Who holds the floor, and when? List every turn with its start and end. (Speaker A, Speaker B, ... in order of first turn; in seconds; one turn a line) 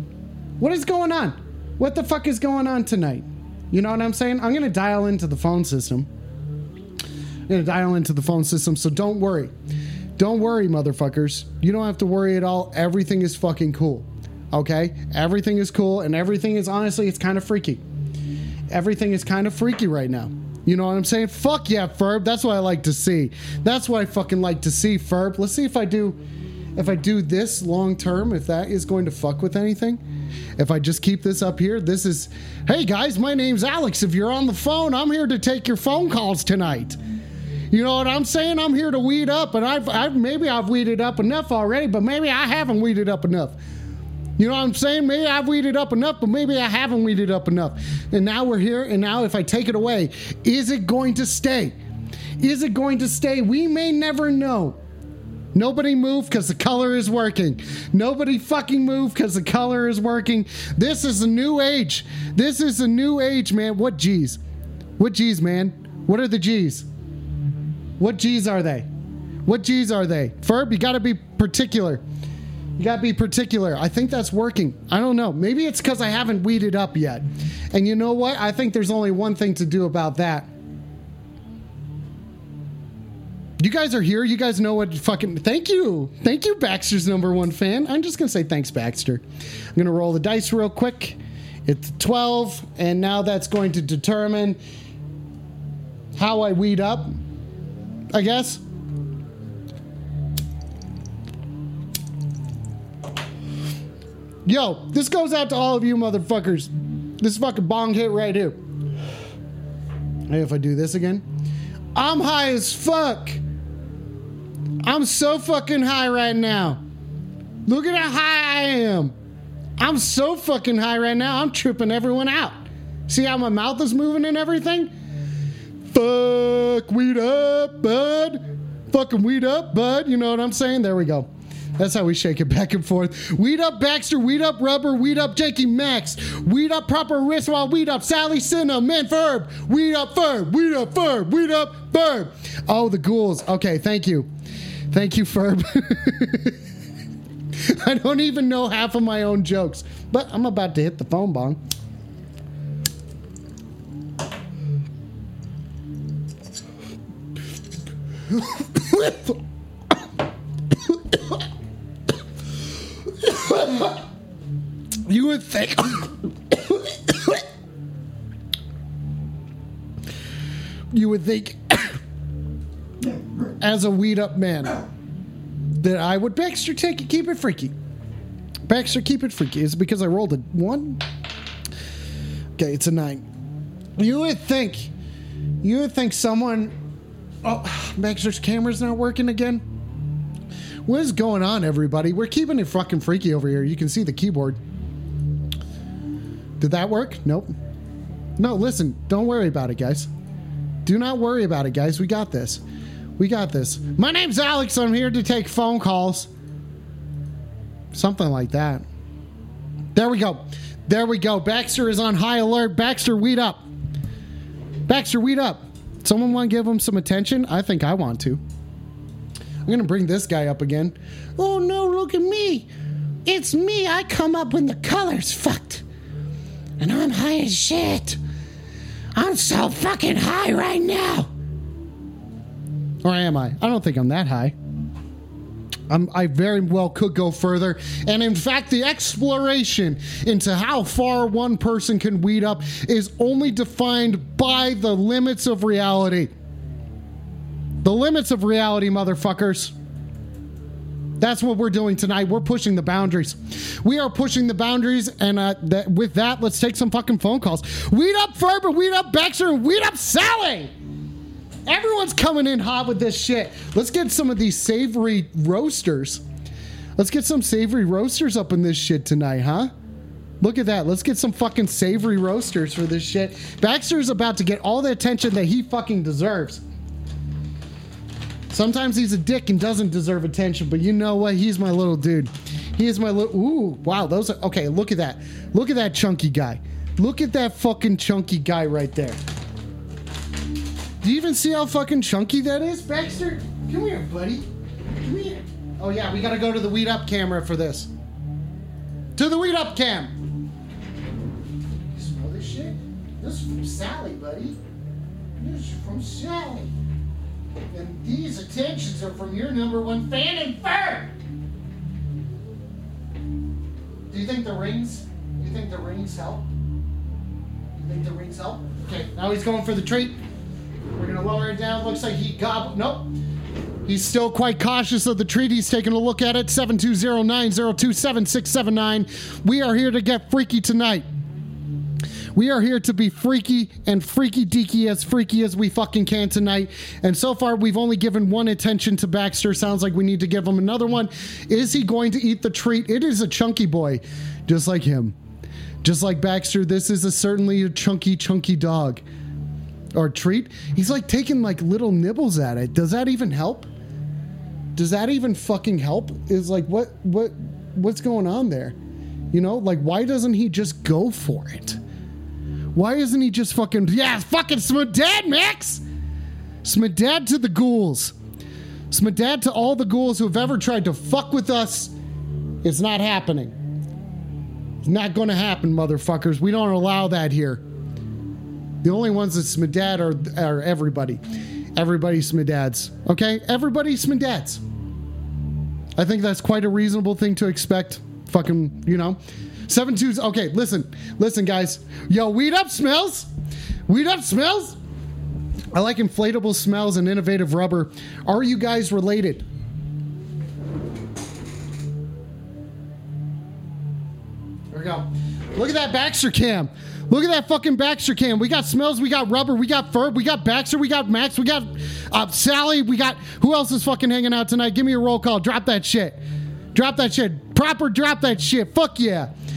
Speaker A: 0.6-6.1
Speaker A: 7.5-9.5
Speaker A: 10.2-17.8
Speaker A: 18.7-26.2
Speaker A: 26.8-30.0
Speaker A: 30.6-37.0
Speaker A: 37.7-43.5
Speaker A: 44.4-51.8
Speaker A: 52.4-54.8
Speaker A: 55.5-64.4
Speaker A: 65.0-66.9
Speaker A: 68.0-68.9
Speaker A: 69.4-72.0
Speaker A: 72.8-80.5
Speaker A: 83.6-89.2
Speaker A: 89.7-94.6
Speaker A: 96.1-97.1
Speaker A: 98.1-98.6
Speaker A: 104.4-108.6
Speaker A: 110.3-111.2
Speaker A: 111.9-113.4
Speaker A: 114.8-116.8
Speaker A: 117.7-119.1
Speaker A: 119.8-124.9
Speaker A: 125.9-144.3
Speaker A: 144.9-146.6
Speaker A: 147.6-151.6
Speaker A: 158.3-159.4
Speaker A: 160.8-161.3
Speaker A: 163.2-164.0
Speaker A: 165.1-167.4
Speaker A: 170.9-172.0
Speaker A: 173.5-174.8
Speaker A: 175.8-177.7
Speaker A: 178.7-181.0
Speaker A: 182.6-183.2
Speaker A: 183.9-184.9
Speaker A: 185.6-186.7
Speaker A: 187.4-189.6
Speaker A: 190.8-194.6
Speaker A: 196.6-197.5
Speaker A: 198.4-200.1
Speaker A: 200.8-202.6
Speaker A: 203.2-206.3
Speaker A: 207.9-208.8
Speaker A: 209.9-213.7
Speaker A: 214.9-218.4
Speaker A: 219.6-222.7
Speaker A: 223.2-225.8
Speaker A: 226.8-228.2
Speaker A: 229.1-231.3
Speaker A: 233.0-234.6
Speaker A: 235.9-246.3
Speaker A: 247.8-249.7
Speaker A: 251.2-260.7
Speaker A: 261.6-266.2
Speaker A: 267.0-269.7
Speaker A: 270.4-276.6
Speaker A: 278.5-289.2
Speaker A: 291.0-294.5
Speaker A: 295.0-297.9
Speaker A: 299.1-300.1
Speaker A: 301.9-304.6
Speaker A: 305.4-306.7
Speaker A: 307.7-311.1
Speaker A: 314.1-316.4
Speaker A: 317.7-320.2
Speaker A: 320.9-323.1
Speaker A: 323.8-331.1
Speaker A: 332.3-345.1
Speaker A: 345.8-349.0
Speaker A: 349.9-353.7
Speaker A: 354.8-358.8
Speaker A: 359.3-361.8
Speaker A: 362.7-365.8
Speaker A: 366.6-368.1
Speaker A: 368.9-371.9
Speaker A: 372.6-373.6
Speaker A: 374.8-377.6
Speaker A: 378.8-381.2
Speaker A: 381.7-384.6
Speaker A: 385.9-393.3
Speaker A: 393.9-394.8
Speaker A: 395.7-399.4
Speaker A: 404.7-416.2
Speaker A: 416.7-419.3